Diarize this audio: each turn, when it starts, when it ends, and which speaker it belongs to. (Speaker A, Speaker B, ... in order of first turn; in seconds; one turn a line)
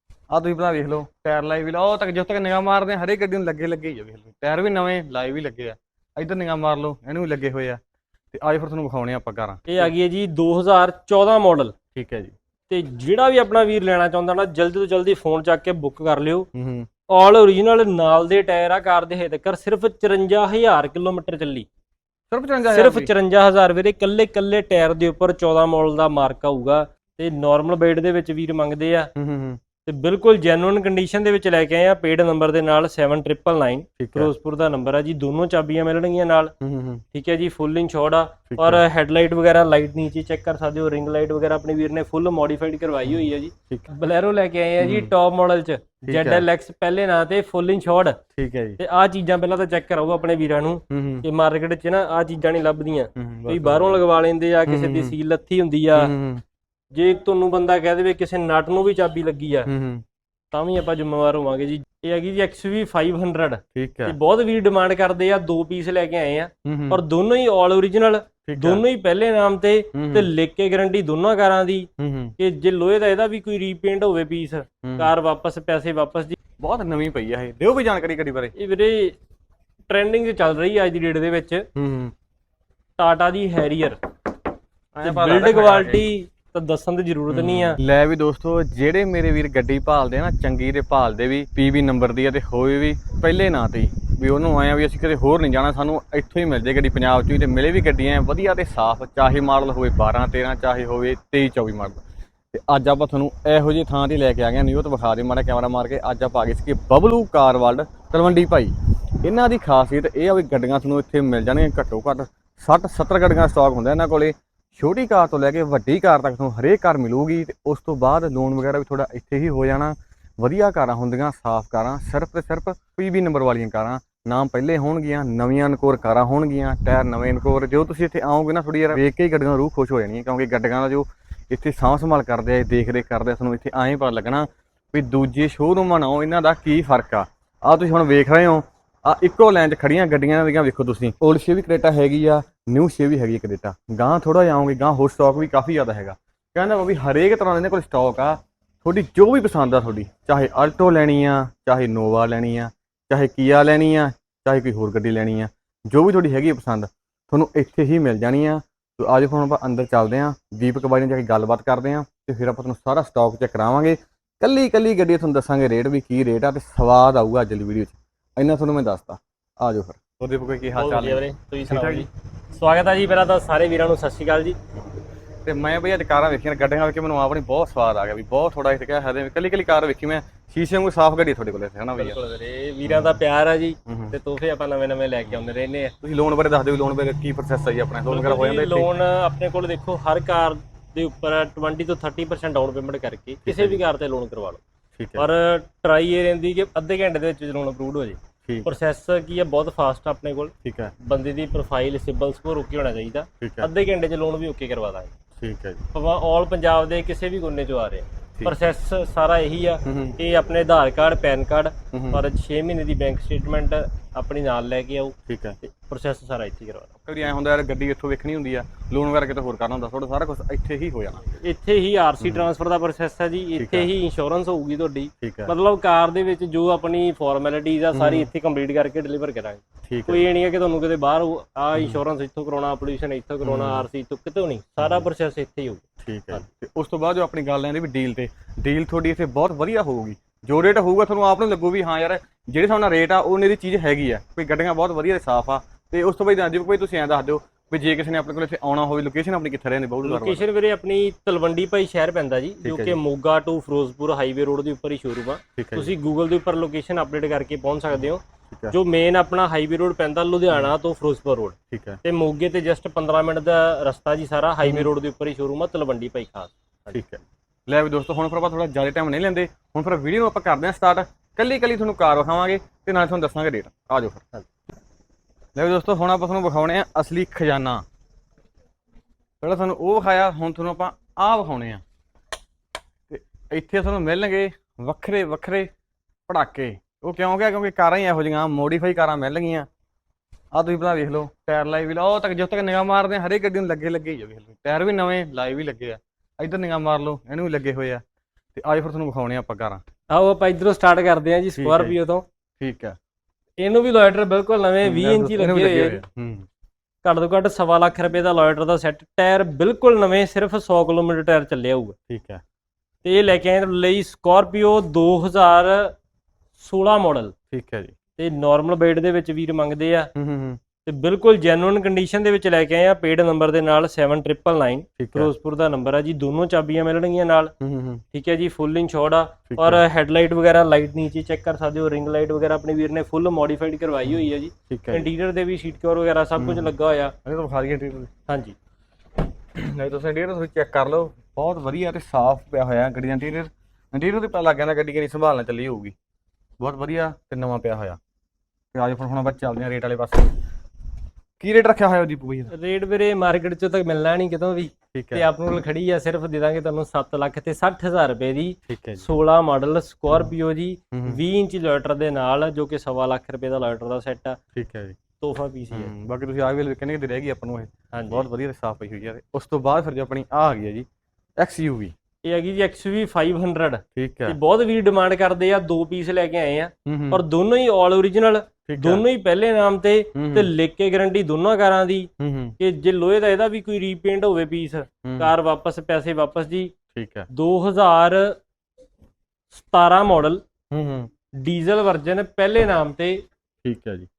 Speaker A: 0.3-7.8
Speaker A: 8.3-9.9
Speaker B: 9.7-11.7
Speaker A: 11.9-12.3
Speaker B: 12.7-16.5
Speaker A: 16.5-16.9
Speaker B: 17.1-21.6
Speaker A: 22.3-23.1
Speaker B: 22.7-29.1
Speaker A: 29.1-29.6
Speaker B: 29.9-36.5
Speaker A: 34.0-34.3
Speaker A: 36.6-37.0
Speaker B: 37.1-48.2
Speaker A: 38.5-38.8
Speaker A: 43.1-43.9
Speaker A: 44.8-45.1
Speaker A: 46.0-46.5
Speaker A: 48.4-48.8
Speaker B: 48.8-56.1
Speaker A: 50.9-51.3
Speaker A: 53.1-54.0
Speaker A: 54.7-55.1
Speaker A: 55.9-56.4
Speaker B: 56.9-59.7
Speaker A: 59.7-60.0
Speaker B: 60.5-76.4
Speaker A: 63.7-64.2
Speaker A: 66.6-67.0
Speaker A: 68.5-68.8
Speaker A: 69.9-70.3
Speaker A: 72.0-72.3
Speaker A: 74.8-75.1
Speaker A: 76.6-78.5
Speaker B: 78.5-79.2
Speaker B: 79.9-81.7
Speaker A: 81.8-82.1
Speaker B: 83.0-84.0
Speaker A: 84.9-86.1
Speaker B: 85.0-87.8
Speaker A: 87.3-172.1
Speaker B: 170.7-174.6
Speaker A: 175.4-182.2
Speaker B: 182.0-185.9
Speaker A: 182.8-183.2
Speaker A: 183.9-184.1
Speaker A: 186.0-188.9
Speaker B: 188.1-194.6
Speaker A: 193.4-193.8
Speaker A: 195.0-195.3
Speaker B: 195.2-205.1
Speaker A: 198.4-198.8
Speaker A: 200.6-200.9
Speaker A: 203.4-203.7
Speaker A: 205.4-205.8
Speaker B: 205.9-216.9
Speaker A: 209.8-210.2
Speaker A: 211.9-212.2
Speaker A: 215.3-215.6
Speaker A: 217.0-221.2
Speaker B: 221.3-236.4
Speaker A: 222.2-222.5
Speaker A: 223.6-223.9
Speaker A: 225.2-225.5
Speaker A: 227.9-228.3
Speaker A: 229.9-230.3
Speaker A: 233.4-233.8
Speaker A: 236.0-250.4
Speaker B: 250.0-266.9
Speaker A: 252.6-253.0
Speaker A: 255.6-255.9
Speaker A: 258.5-258.8
Speaker A: 261.7-262.0
Speaker A: 266.9-274.2
Speaker A: 275.6-277.8
Speaker A: 279.4-281.8
Speaker A: 283.1-285.7
Speaker A: 286.3-289.7
Speaker A: 290.5-298.0
Speaker A: 298.5-299.8
Speaker B: 300.1-302.2
Speaker A: 301.6-301.9
Speaker A: 302.6-302.9
Speaker B: 303.6-306.0
Speaker A: 304.8-306.4
Speaker B: 307.0-311.9
Speaker A: 312.1-312.4
Speaker B: 313.0-315.9
Speaker B: 316.6-317.3
Speaker A: 317.5-317.9
Speaker B: 318.2-320.1
Speaker A: 320.1-320.6
Speaker B: 320.9-327.5
Speaker A: 325.0-325.3
Speaker A: 327.6-328.0
Speaker B: 328.1-337.1
Speaker A: 329.5-329.8
Speaker A: 334.1-335.1
Speaker A: 336.4-336.7
Speaker A: 337.2-338.1
Speaker B: 338.3-338.5
Speaker A: 339.5-345.9
Speaker A: 346.6-348.0
Speaker A: 348.7-350.4
Speaker A: 351.4-352.5
Speaker B: 352.5-364.4
Speaker A: 354.9-355.2
Speaker A: 358.7-359.1
Speaker A: 360.9-361.2
Speaker A: 364.5-365.0
Speaker B: 365.2-365.9
Speaker A: 365.7-370.9
Speaker B: 367.9-368.2
Speaker A: 371.4-371.9
Speaker B: 372.2-386.7
Speaker A: 373.9-374.4
Speaker A: 376.9-377.2
Speaker A: 378.7-379.1
Speaker A: 380.1-380.5
Speaker A: 382.2-382.6
Speaker A: 385.0-385.3
Speaker A: 386.9-387.3
Speaker B: 387.3-388.4
Speaker B: 389.5-390.4
Speaker A: 390.7-391.1
Speaker B: 391.4-393.2
Speaker A: 393.6-394.1